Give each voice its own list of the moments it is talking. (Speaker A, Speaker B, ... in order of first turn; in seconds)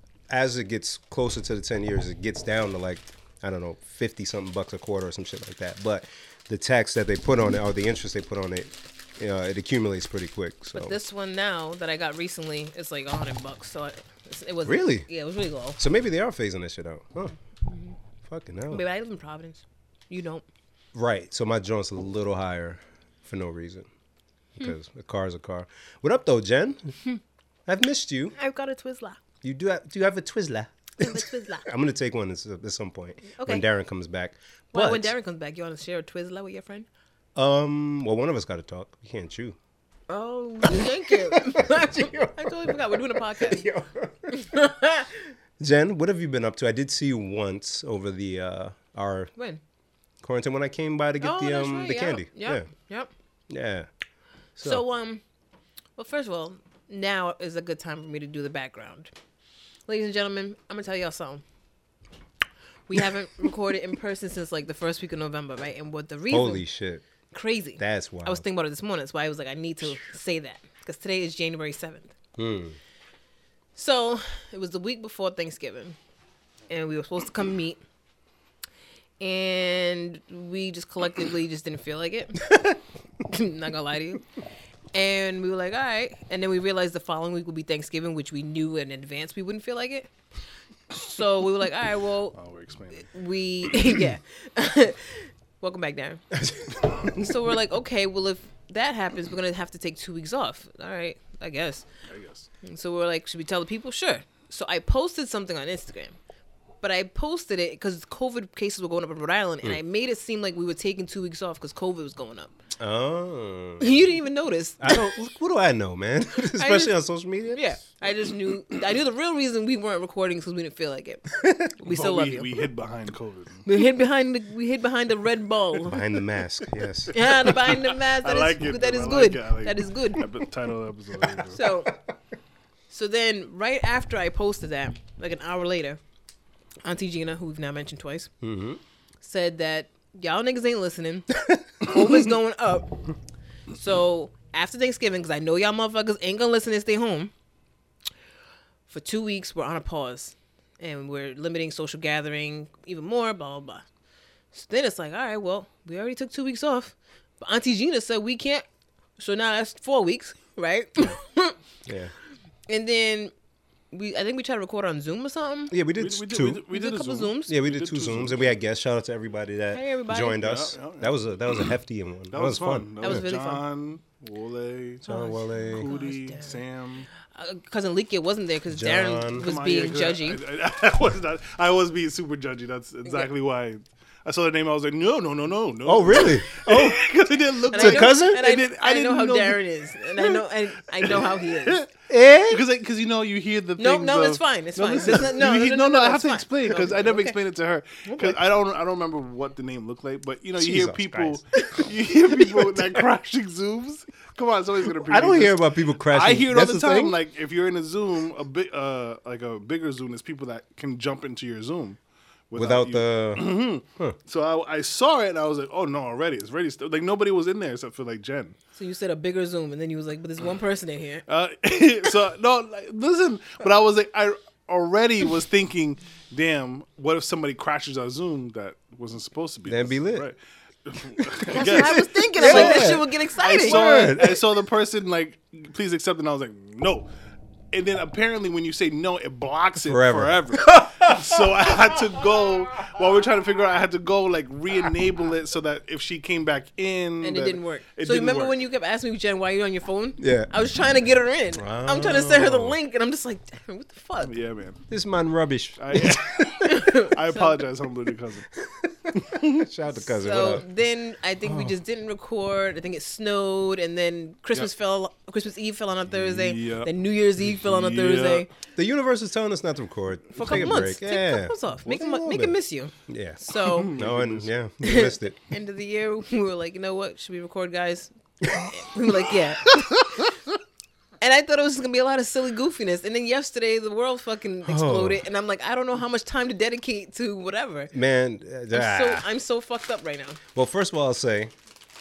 Speaker A: 0.3-11.0, 14.6-15.1, 15.8-17.4, 18.2-18.8, 20.9-23.9, 24.6-26.9, 27.7-28.3, 29.4-35.1, 37.3-39.6, 40.6-44.5, 45.6-49.3, 50.2-52.7, 53.5-53.9, 54.6-54.8, 66.3-67.0, 67.8-68.4, 72.4-72.8, 96.3-97.3, 112.8-114.1, 114.8-117.7, 121.4-121.7, 125.8-127.1, 138.4-138.8, 141.5-142.1, 161.8-162.1, 165.7-166.6, 167.5-173.2, 175.1-175.9, 178.7-179.5, 185.8-187.1, 187.7-188.5, 192.1-192.6, 200.6-201.4, 205.0-207.2, 212.6-214.1, 229.7-230.3, 231.4-234.4, 239.9-241.9, 250.2-250.5, 251.6-252.8, 254.9-256.7, 258.6-260.6, 261.4-261.8, 268.8-275.4, 284.6-285.2, 287.9-289.3, 290.5-291.5
Speaker B: 10.7-15.8, 18.7-20.4, 28.3-29.2, 31.0-31.7, 33.4-33.6, 34.7-36.9, 40.1-43.7, 44.3-45.3, 49.4-49.6, 51.2-53.1, 54.6-55.2, 56.0-59.1, 59.9-61.4, 62.9-66.6, 67.3-72.1, 73.8-76.0, 76.7-77.8, 79.2-84.2, 84.9-90.1, 90.9-92.3, 92.9-96.2, 97.1-101.8, 102.6-106.2, 106.8-112.5, 113.8-115.1, 116.5-117.0, 117.5-122.5, 123.6-126.0, 127.1-130.2, 131.5-131.9, 132.9-136.0, 136.8-138.3, 139.2-143.1, 143.7-147.3, 148.9-153.8, 154.5-158.6, 159.2-161.6, 162.7-163.3, 163.9-165.7, 166.7-167.5, 169.7-170.4, 173.0-173.6, 175.0-176.6, 177.3-180.4, 187.7-191.8, 193.8-197.4, 218.7-221.2, 231.5-234.1, 247.2-254.3, 256.6-257.6, 260.0-268.5, 270.3-273.9, 274.8-280.2, 281.2-287.9, 288.7-290.4
Speaker C: 92.3-93.1, 102.1-102.5, 121.8-123.7, 127.2-131.6, 166.0-168.5, 170.3-171.7, 172.3-175.1, 175.6-177.1, 179.4-189.6, 190.9-191.9, 192.5-212.0, 212.5-218.6, 221.3-237.1, 237.7-248.5, 254.2-254.8, 255.8-258.5, 259.1-259.6, 266.1-268.5, 273.6-274.5